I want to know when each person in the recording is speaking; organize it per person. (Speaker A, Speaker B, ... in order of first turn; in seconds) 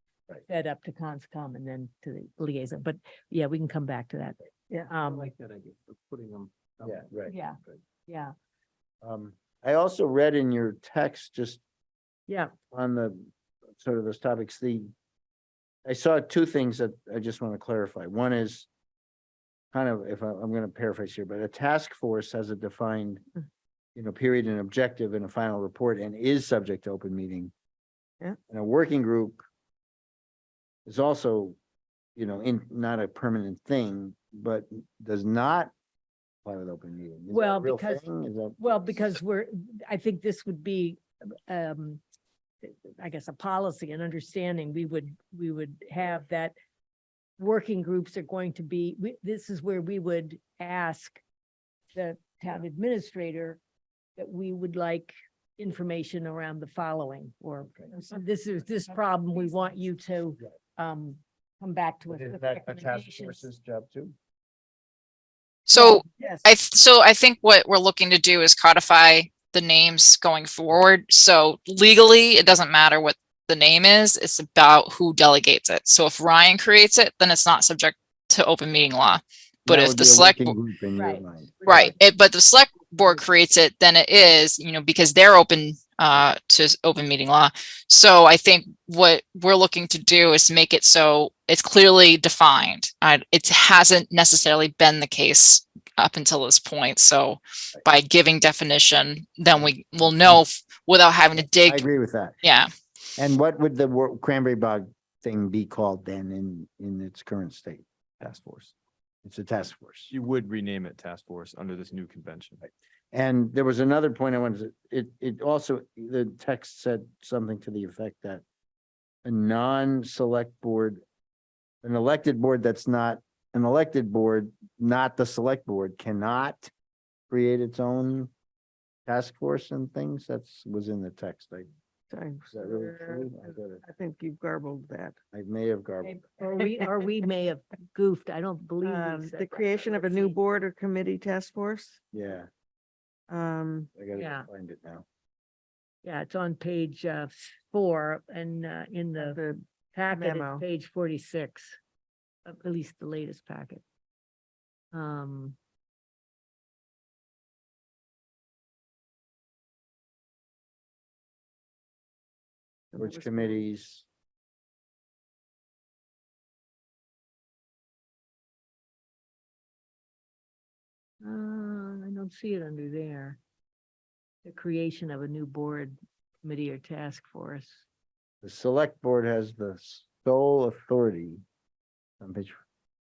Speaker A: 0.5-5.3, 7.3-8.3, 37.3-38.0, 38.6-42.0, 42.6-46.5, 47.4-51.2, 52.0-53.6, 54.2-63.4, 81.0-81.8, 136.0-140.4, 144.2-144.5, 146.0-149.4, 149.9-151.8, 152.4-153.8, 154.9-155.6, 171.2-173.4, 174.4-177.8
Speaker B: 5.1-7.1
Speaker C: 6.8-7.5, 9.0-11.6, 12.7-13.3, 13.8-14.9, 15.8-18.7, 19.7-23.2, 23.9-27.5, 28.5-29.4, 30.9-31.6, 32.2-35.7, 36.5-39.2, 62.1-64.1, 79.7-81.9, 99.6-100.4, 101.4-102.4, 103.2-107.8, 109.2-110.1, 113.1-118.4, 119.2-121.0, 121.8-126.7, 127.3-128.3, 129.1-131.7, 132.5-133.8, 135.3-136.2, 142.1-142.5, 143.9-145.1, 163.0-164.1, 178.4-181.4, 182.2-182.6
Speaker D: 65.7-80.5, 81.7-101.9, 102.4-102.7
Speaker E: 65.8-66.5, 132.1-135.2, 138.8-142.0, 143.3-143.9, 149.2-150.7, 162.9-163.6
Speaker F: 108.2-108.7, 110.1-112.6